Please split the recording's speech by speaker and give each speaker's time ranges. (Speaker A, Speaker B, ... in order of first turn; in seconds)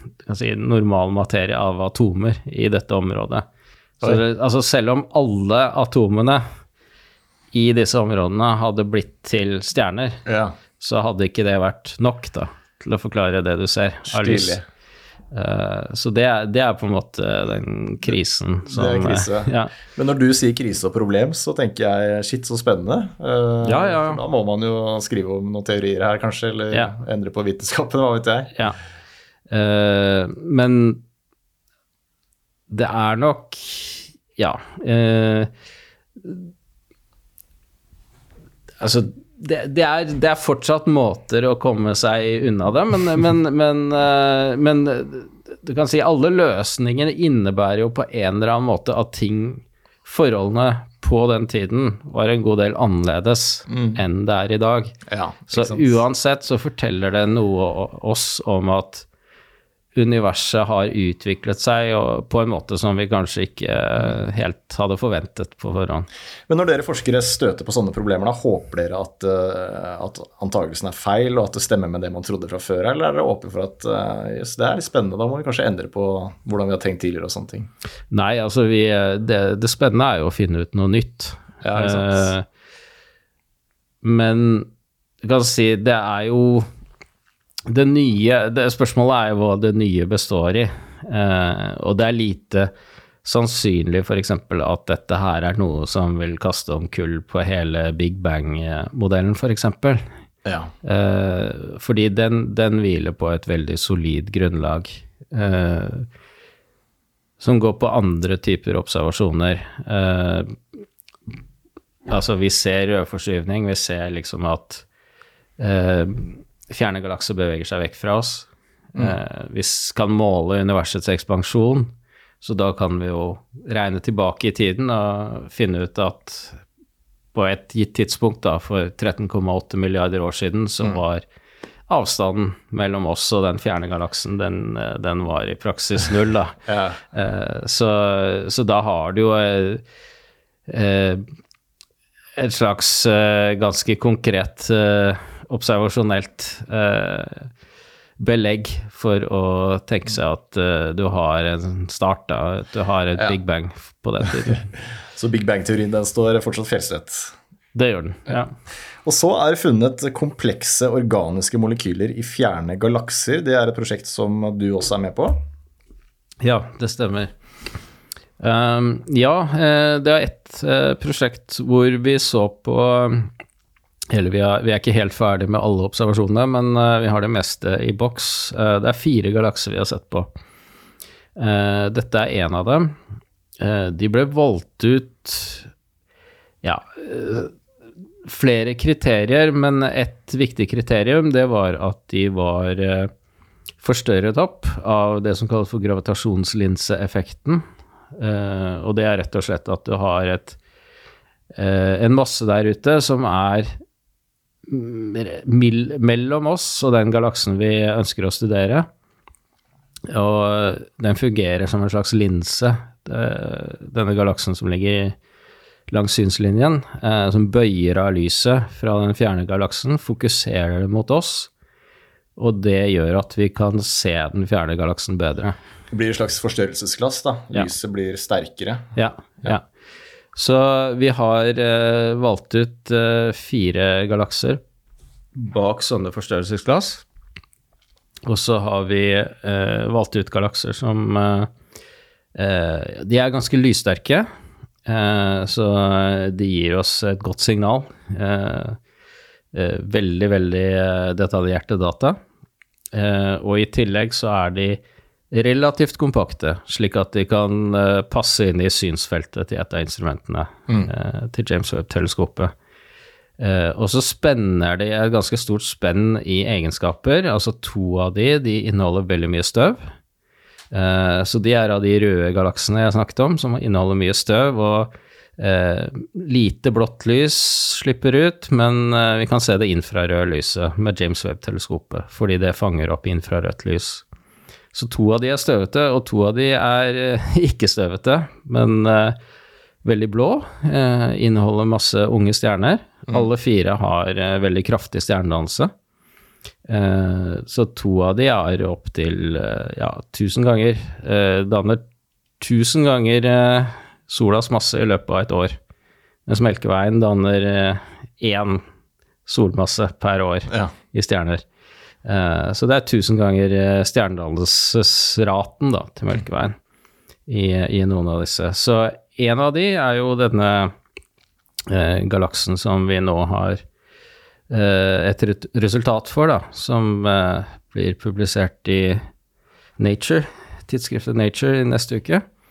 Speaker A: 0.2-3.5, 4.0-6.4, 7.5-10.2, 10.8-14.6, 15.3-19.7, 23.6-24.2, 29.5-31.0, 32.7-35.5, 36.2-36.5, 38.8-54.9, 55.5-59.0, 59.9-66.1, 78.1-82.4, 84.0-84.7, 85.2-86.7, 87.7-92.7, 93.2-100.0, 100.8-106.1, 107.4-110.6, 112.1-114.8, 115.6-126.6, 127.3-131.2, 131.9-136.6, 137.1-139.8, 140.7-141.3, 142.4-147.5, 148.2-154.7, 157.7-158.5, 166.4-167.3, 168.4-173.3, 174.1-180.3, 181.3-182.9, 183.6-185.7, 186.6-187.5, 188.2-193.1, 193.8-200.6, 201.5-203.7, 204.7-208.9, 210.1-215.2, 215.9-221.5, 222.4-225.6, 228.9-229.6, 230.3-234.6, 235.3-237.0, 238.2-241.5, 242.3-244.3, 244.8-248.8, 249.5-252.2, 252.9-254.8, 255.3-262.5, 263.4-269.9, 270.7-284.0, 284.7-289.2, 289.8-295.7, 296.7-301.8, 302.4-305.6, 306.3-308.6, 309.2-311.4, 312.0-316.5, 317.3-320.7, 321.7-323.6, 324.5-329.0, 329.8-332.2
Speaker B: 10.2-10.5, 14.1-14.6, 18.7-28.5, 53.7-54.0, 55.1-56.0, 66.5-77.7, 81.6-82.3, 100.4-100.7, 136.7-137.0, 155.1-157.3, 159.0-165.4, 225.9-229.6